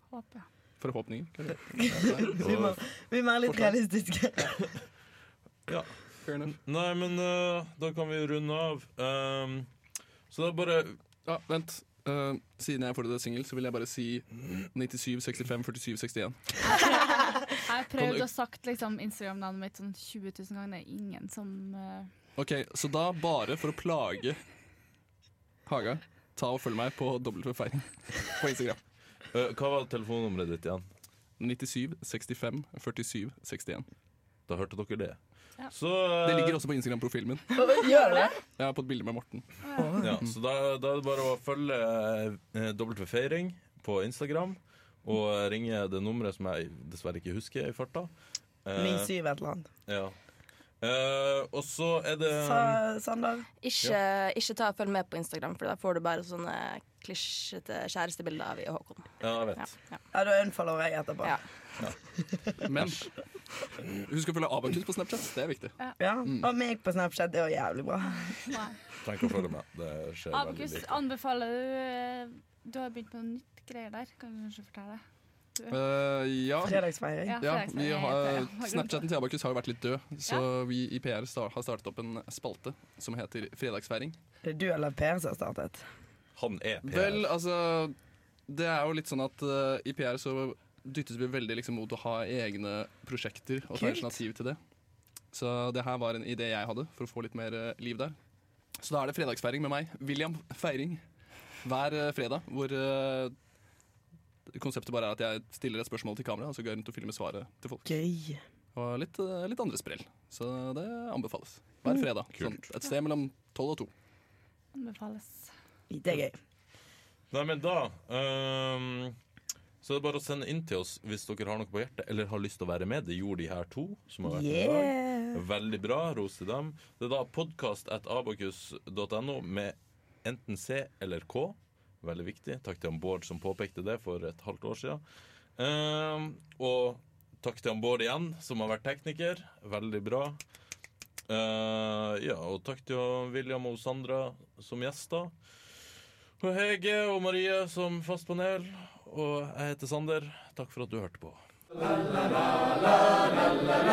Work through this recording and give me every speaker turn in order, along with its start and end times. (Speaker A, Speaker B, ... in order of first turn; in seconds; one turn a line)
Speaker A: 0.1-0.5
Speaker B: 0.8-2.4
Speaker C: 1.8-4.7
Speaker D: 2.4-2.8
Speaker B: 3.5-3.8
Speaker D: 5.7-5.9
Speaker B: 6.2-6.5
Speaker D: 6.5-9.7
Speaker D: 10.3-11.0
Speaker B: 11.2-16.4
Speaker A: 16.7-22.1
Speaker B: 22.4-24.4
Speaker B: 25.7-28.8
Speaker D: 29.3-30.8
Speaker B: 31.4-33.9
Speaker D: 34.5-35.2
Speaker D: 35.7-36.6
Speaker B: 36.2-37.5
Speaker C: 37.5-38.4
Speaker A: 37.9-38.3
Speaker B: 38.5-39.5
Speaker C: 39.8-40.2
Speaker D: 40.0-48.1
Speaker D: 48.6-49.1
Speaker C: 48.8-49.7
Speaker D: 49.9-50.1
Speaker D: 50.8-52.8
Speaker C: 52.4-53.5
Speaker E: 53.6-59.7
Speaker D: 59.2-59.8
Speaker C: 60.1-61.4
Speaker B: 62.7-63.1
Speaker B: 64.0-66.5
Speaker C: 66.0-68.5
Speaker A: 68.5-68.8
Speaker D: 69.0-71.0
Speaker A: 70.3-75.0
Speaker B: 75.7-76.8
Speaker C: 76.6-77.4
Speaker A: 77.3-79.1
Speaker B: 77.4-84.2
Speaker C: 84.4-85.8
Speaker D: 86.4-87.3
Speaker B: 86.8-88.0
Speaker B: 88.5-94.6
Speaker C: 93.7-94.1
Speaker B: 95.3-98.2
Speaker B: 98.8-101.0
Speaker B: 101.6-103.3
Speaker B: 104.5-107.9
Speaker C: 107.9-108.4
Speaker B: 108.8-113.9
Speaker A: 114.7-115.5
Speaker C: 115.9-116.4
Speaker D: 117.3-119.2
Speaker D: 119.8-135.0
Speaker C: 124.3-125.4
Speaker D: 135.6-140.4
Speaker D: 141.3-145.3
Speaker D: 146.4-151.4